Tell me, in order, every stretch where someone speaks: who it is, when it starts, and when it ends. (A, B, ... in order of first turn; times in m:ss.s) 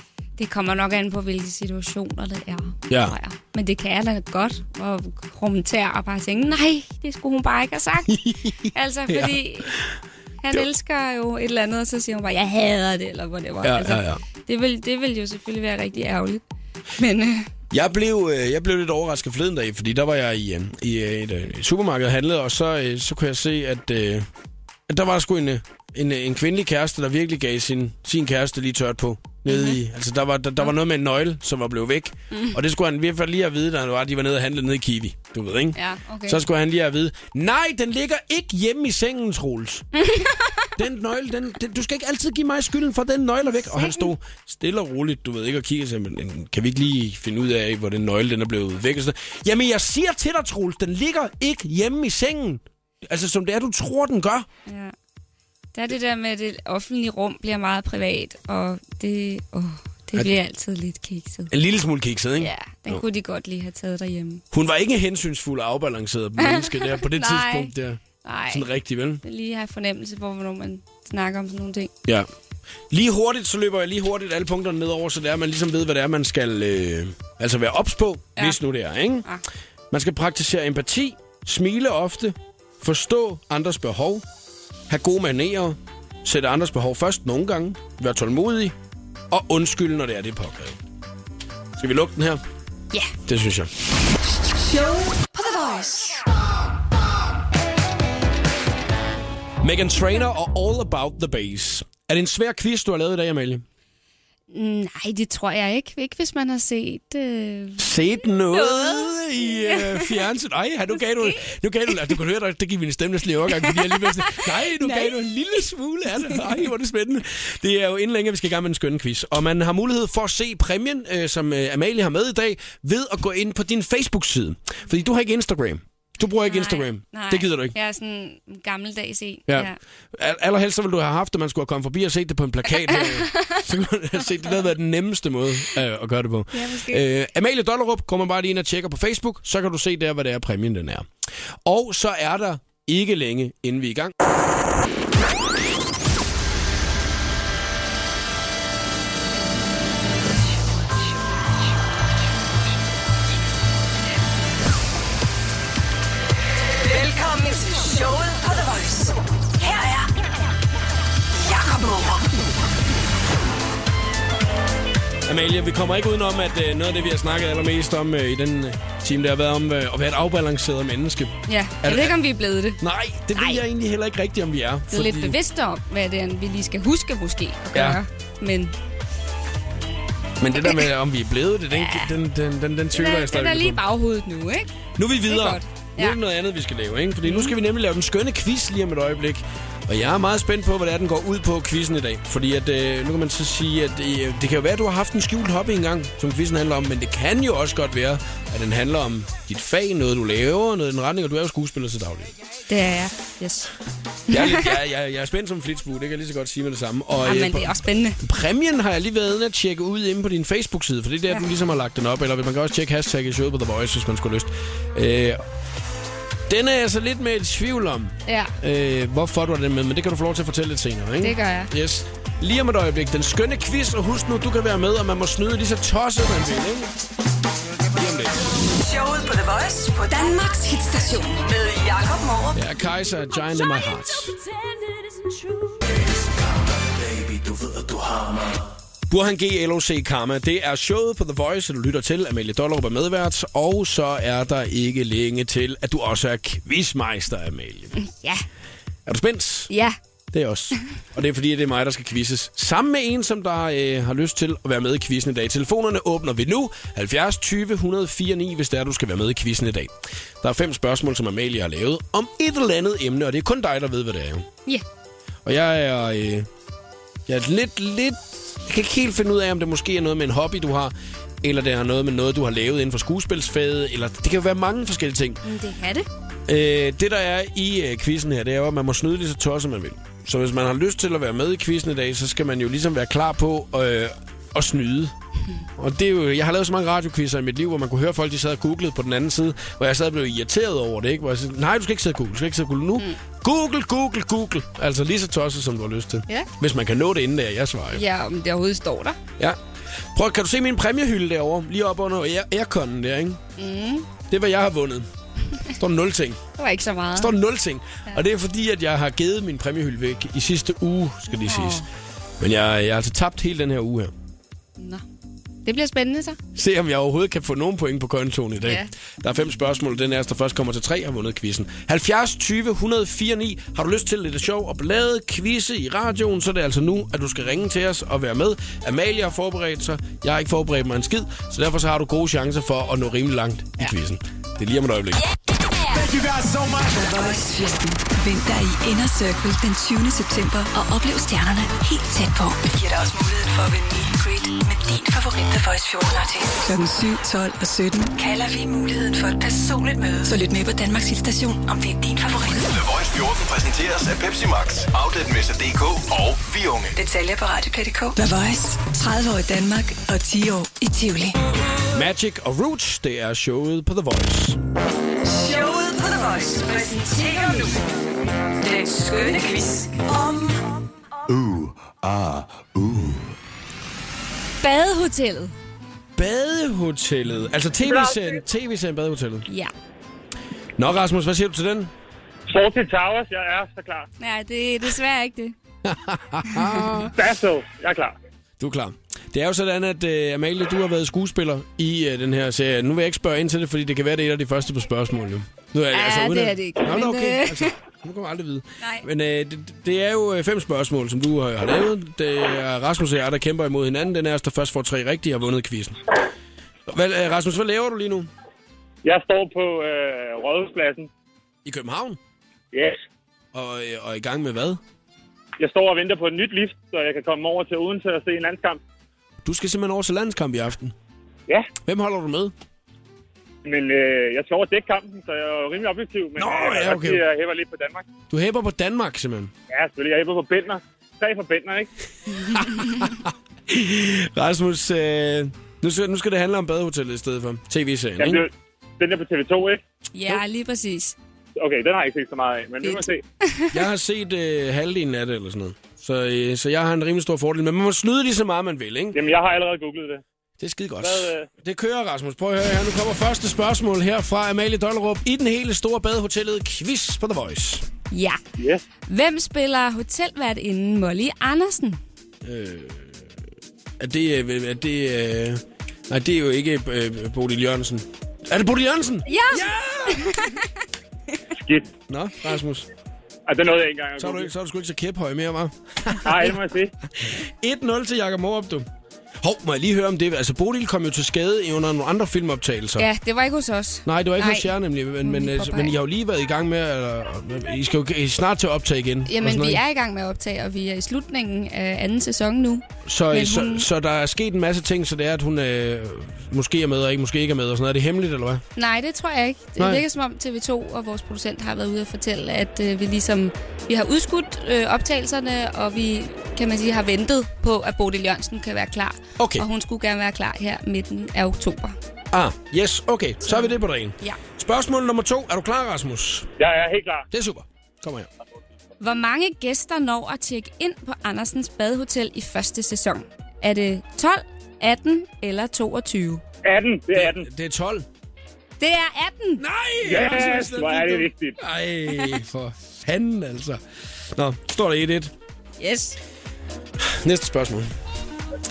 0:00.4-0:09.7 A
0:02.9-0:03.2 B
0:08.1-0:09.9 B
0:10.4-0:16.4 A
0:13.6-0:14.2 B
0:17.0-0:17.5 A
0:17.7-0:24.3 B
0:24.9-0:39.8 B
0:29.5-0:29.8 A
0:32.3-0:32.6 A
0:35.7-0:36.4 A
0:39.9-0:40.7 A
0:40.8-0:54.5 B
0:43.6-0:44.1 A
0:54.6-0:54.9 A
0:55.7-1:01.5 A
1:01.5-1:03.0 B
1:02.4-1:04.4 A
1:04.5-1:09.2 B
1:06.4-1:07.7 A
1:08.2-1:08.6 A
1:09.2-1:11.9 A
1:12.9-1:19.3 B
1:19.9-1:24.2 B
1:24.9-1:28.8 B
1:29.3-1:30.8 B
1:31.8-1:32.4 B
1:33.2-1:33.7 B
1:34.6-1:36.2 C
1:39.6-1:43.6 B
1:44.5-1:47.9 A
1:47.8-2:07.7 B
1:48.5-1:50.2 A
1:51.2-1:51.5 A
1:53.7-1:55.2 A
2:06.4-2:09.8 A
2:09.5-2:21.1 B
2:12.9-2:13.6 A
2:16.5-2:17.0 A
2:21.6-2:24.1 B
2:36.7-2:40.1 C
2:41.3-2:42.4 C
2:45.2-2:52.2 B
2:51.5-2:52.8 A
2:52.8-2:55.4 B
2:53.3-2:53.6 A
2:54.9-2:58.7 A
2:57.7-2:58.0 B
3:00.4-3:03.8 B
3:00.6-3:00.9 A
3:01.7-3:02.1 A
3:02.9-3:04.7 A
3:05.0-3:22.3 B
3:05.3-3:06.2 A
3:07.2-3:07.5 A
3:22.7-3:23.7 A
3:24.3-3:24.7 A
3:24.3-3:35.4 B
3:27.2-3:28.2 A
3:36.5-3:46.9 B
3:38.2-3:38.5 A
3:41.2-3:41.7 A
3:47.9-3:48.4 B
3:48.6-3:52.6 C
3:52.5-3:54.4 B
3:55.7-3:58.8 D
3:59.1-4:08.0 B
4:08.0-4:08.4 A
4:09.0-4:09.7 B
4:09.7-4:10.0 A
4:10.3-4:24.5 B
4:25.4-4:26.5 B
4:27.3-4:35.4 B
4:35.4-4:36.1 A
4:36.5-4:45.1 B
4:45.8-4:58.0 B
4:57.9-4:59.2 A
5:00.1-5:03.4 B
5:03.6-5:04.1 A
5:04.3-5:05.1 B
5:05.7-5:06.4 B
5:06.6-5:07.4 A
5:07.1-5:11.8 B
5:11.3-5:11.8 A
5:12.4-5:14.1 B
5:14.8-5:15.0 A
5:15.6-5:16.4 A
5:16.5-5:35.2 B
5:18.6-5:18.9 A
5:35.8-5:37.5 D
5:37.1-5:52.9 C
5:52.8-5:57.0 D
5:56.9-6:01.4 C
6:01.9-6:04.6 B
6:05.2-6:07.8 C
6:08.6-6:10.8 C
6:11.3-6:13.2 D
6:14.6-6:15.5 A
6:16.2-6:19.5 B
6:17.8-6:18.3 E
6:20.8-6:21.9 B
6:22.5-6:24.1 E
6:24.2-6:25.5 A
6:25.8-6:27.1 B
6:26.4-6:27.1 A
6:27.0-6:28.1 E
6:28.6-6:46.0 B
6:35.9-6:37.7 A
6:38.8-6:39.0 A
6:46.9-6:48.3 B
6:49.0-6:51.1 E
6:51.6-6:52.2 B
6:52.7-6:53.0 E
6:53.5-6:54.8 B
6:55.6-6:58.8 E
6:59.4-7:00.9 B
7:01.8-7:02.5 B
7:03.6-7:08.0 E
7:06.4-7:07.2 B
7:08.3-7:09.5 B
7:09.7-7:11.9 E
7:12.5-7:13.0 A
7:12.6-7:18.4 B
7:18.2-7:19.8 E
7:20.1-7:21.1 A
7:21.6-7:23.2 E
7:22.8-7:23.7 A
7:23.7-7:29.2 B
7:29.1-7:30.2 E
7:30.6-7:37.8 B
7:31.0-7:31.5 E
7:38.1-7:38.4 A
7:38.6-7:38.8 E
7:39.0-7:42.0 A
7:42.4-7:43.3 B
7:44.0-7:50.5 B
7:49.2-7:50.6 A
7:51.5-7:51.9 E
7:52.1-7:52.9 B
7:53.5-7:54.5 E
7:54.2-7:56.5 B
7:56.2-7:56.9 E
7:57.2-7:58.9 B
7:59.4-8:03.1 B
8:03.0-8:06.0 A
8:04.0-8:09.8 B
8:09.2-8:13.9 A
8:13.0-8:18.6 B
8:18.8-8:31.9 A
8:19.8-8:20.0 B
8:29.4-8:29.6 B
8:32.3-8:36.5 B
8:33.4-8:34.4 A
8:36.6-8:37.2 E
8:37.3-8:38.3 B
8:39.0-8:46.4 A
8:46.6-8:47.5 E
8:47.1-8:48.1 B
8:48.8-8:49.6 A
8:49.6-8:53.8 B
8:50.0-8:51.6 E
8:54.3-8:55.3 B
8:55.8-8:56.2 A
8:57.0-8:57.9 B